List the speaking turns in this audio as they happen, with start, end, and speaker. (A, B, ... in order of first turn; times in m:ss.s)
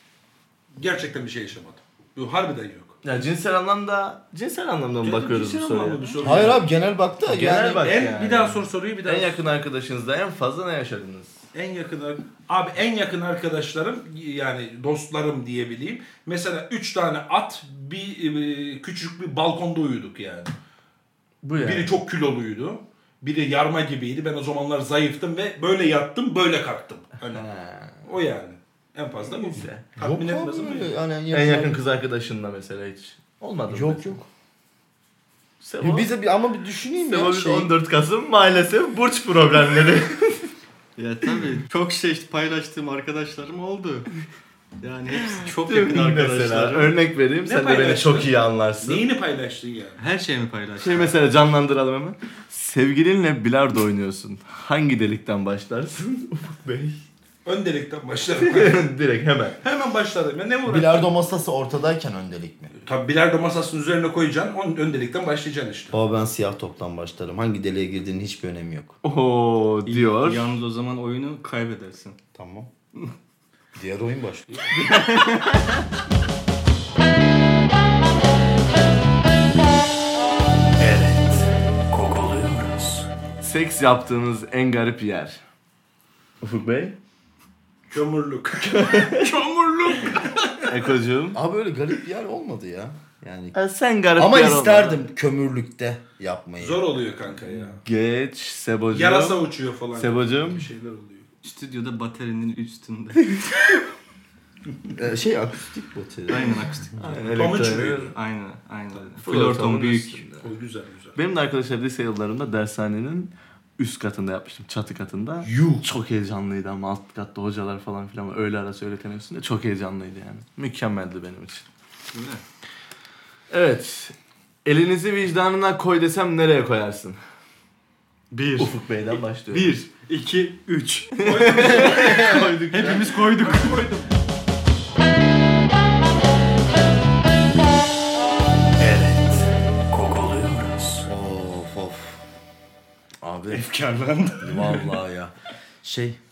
0:00.8-0:03.0 A
0:03.0-0:06.1 B
0:05.0-0:06.7 A
0:06.2-0:07.8 C
0:07.3-0:11.4 B
0:07.8-0:09.4 A
0:11.5-0:20.5 A
0:21.4-0:22.0 B
0:21.6-0:27.4 A
0:27.2-0:28.1 B
0:28.0-0:30.9 A
0:29.3-0:29.9 B
0:30.0-0:31.8 C
0:31.3-0:34.2 B
0:33.7-0:34.2 C
0:35.6-0:36.1 B
0:35.8-0:37.7 C
0:37.0-0:40.5 B
0:41.0-0:44.1 D
0:44.8-0:46.9 D
0:45.5-0:49.0 B
0:47.4-0:50.0 A
0:50.0-0:51.2 D
0:50.8-0:57.0 B
0:57.4-0:58.9 A
0:58.3-0:59.6 B
0:59.6-1:01.1 A
1:00.6-1:02.7 C
1:02.7-1:05.9 A
1:05.9-1:09.0 C
1:09.0-1:10.5 B
1:09.8-1:12.2 D
1:12.3-1:12.7 C
1:13.8-1:14.6 C
1:14.8-1:15.6 D
1:20.8-1:21.5 A
1:21.9-1:22.8 D
1:23.4-1:25.4 B
1:26.4-1:27.0 B
1:27.9-1:30.9 A
1:28.6-1:29.4 B
1:30.7-1:31.4 B
1:31.3-1:33.5 C
1:33.5-1:35.0 B
1:34.2-1:36.8 C
1:36.6-1:37.8 A
1:37.8-1:40.7 B
1:38.9-1:41.3 A
1:41.4-1:43.4 D
1:44.9-1:47.1 C
1:46.3-1:50.2 D
1:47.0-1:48.1 B
1:47.3-1:48.2 A
1:49.2-1:50.4 B
1:50.4-1:51.2 A
1:51.1-2:01.6 B
1:55.4-1:55.8 A
2:02.1-2:02.4 D
2:03.5-2:07.2 B
2:08.3-2:13.9 D
2:08.6-2:09.8 B
2:11.2-2:12.4 A
2:11.2-2:13.1 B
2:13.1-2:14.1 A
2:18.8-2:19.5 A
2:20.0-2:21.0 D
2:21.0-2:22.2 C
2:23.2-2:23.6 C
2:23.5-2:24.9 A
2:24.4-2:26.2 C